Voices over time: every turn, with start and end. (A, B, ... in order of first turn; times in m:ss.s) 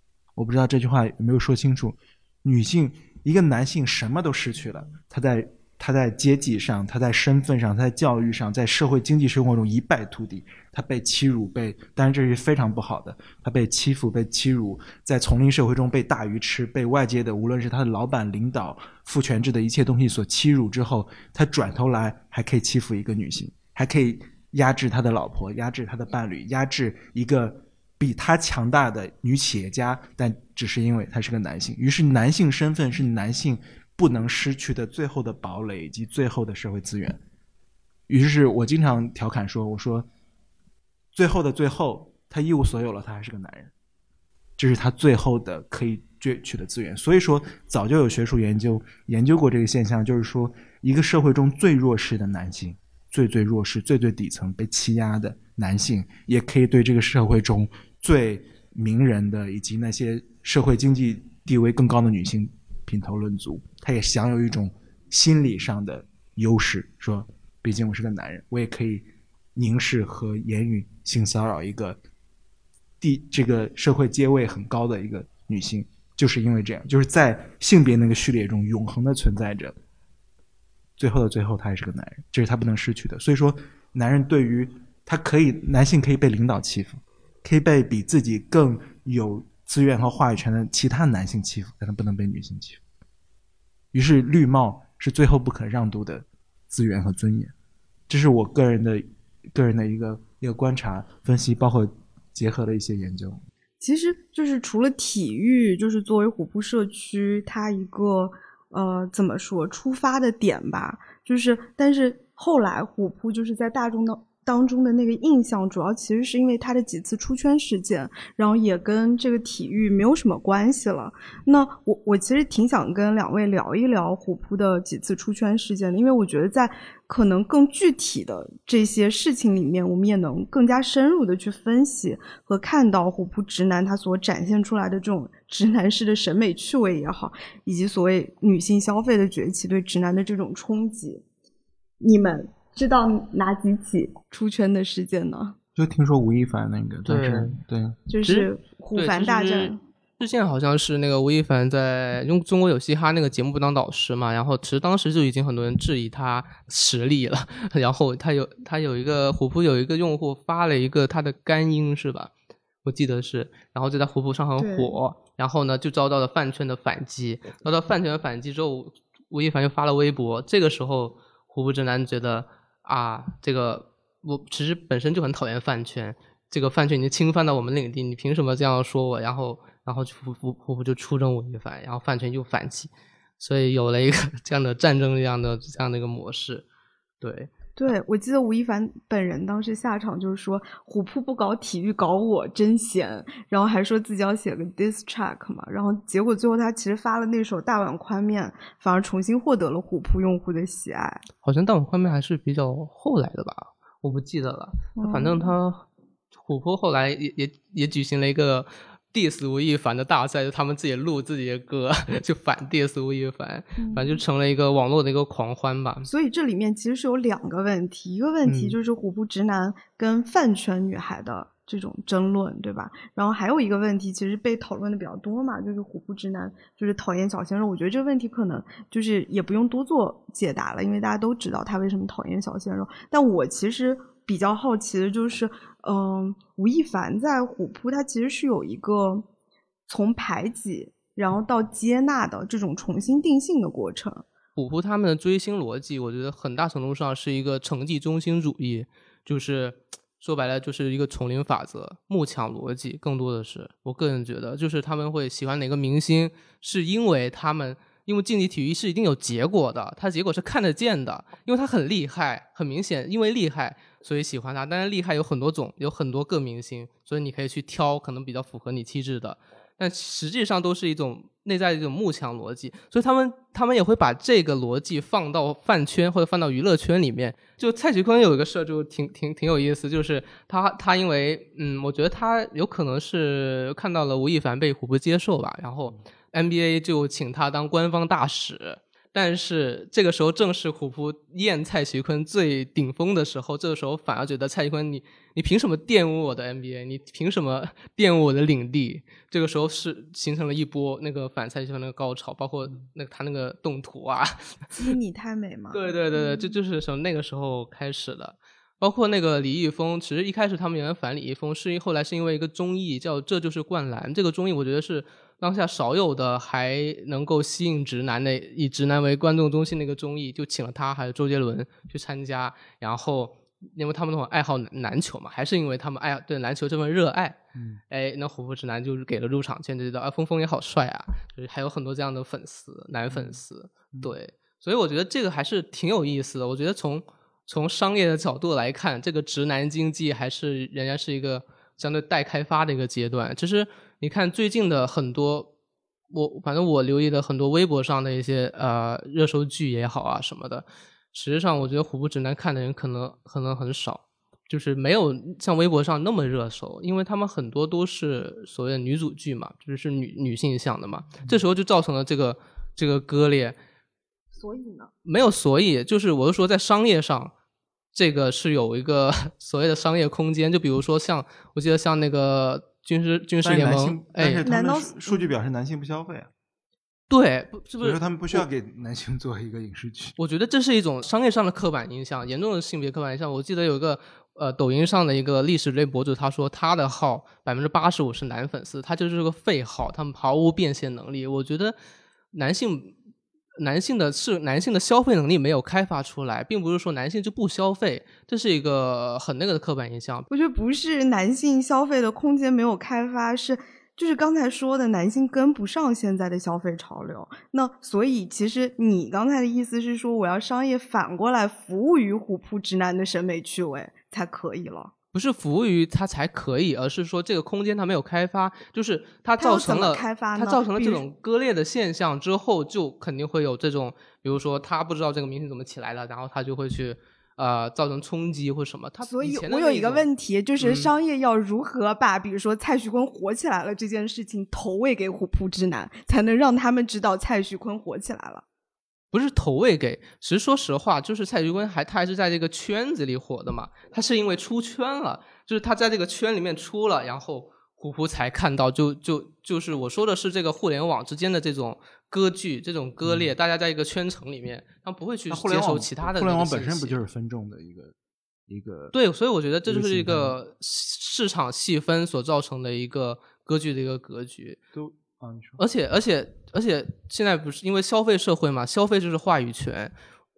0:00.4-0:37.2 A
0:38.1-0:40.1 A
0:41.1-0:43.7 A
0:44.6-1:12.0 A
1:13.0-1:19.7 A
1:21.0-1:32.8 A
1:33.9-1:37.5 A
1:38.1-1:43.4 A
1:43.8-2:21.2 B
2:22.0-2:25.6 B
2:25.8-2:28.0 A
2:27.1-2:27.6 C
2:28.1-2:29.8 B
2:28.2-2:42.3 C
2:42.8-3:06.6 C
2:44.6-2:45.0 B
3:07.2-3:07.5 C
3:07.8-3:21.2 B
3:21.4-3:36.1 C
3:25.0-3:25.5 B
3:33.8-3:34.2 B
3:36.1-3:59.3 B
3:38.4-3:38.7 A
3:59.9-4:04.2 B
4:04.6-5:05.0 C
5:04.8-5:06.6 B
5:05.7-5:27.4 C
5:27.6-5:27.8 A
5:27.9-5:45.5 C
5:33.1-5:33.4 A
5:46.1-6:03.6 C
6:04.4-6:04.9 B
6:05.0-6:07.3 C
6:07.9-6:14.4 C
6:13.4-6:16.3 A
6:14.4-6:15.3 B
6:17.1-6:18.4 C
6:17.8-6:20.2 A
6:20.2-6:31.8 C
6:32.3-6:32.9 C
6:33.6-6:40.3 C
6:40.3-6:54.9 B
6:55.1-7:10.1 C
6:59.4-7:01.0 B
7:09.0-7:18.4 B
7:10.6-7:10.9 C
7:19.1-7:37.0 C
7:33.0-7:33.3 A
7:35.3-7:38.0 A
7:38.5-7:38.9 A
7:38.9-7:44.6 C
7:39.7-7:40.4 A
7:44.7-7:45.6 A
7:45.6-7:50.0 C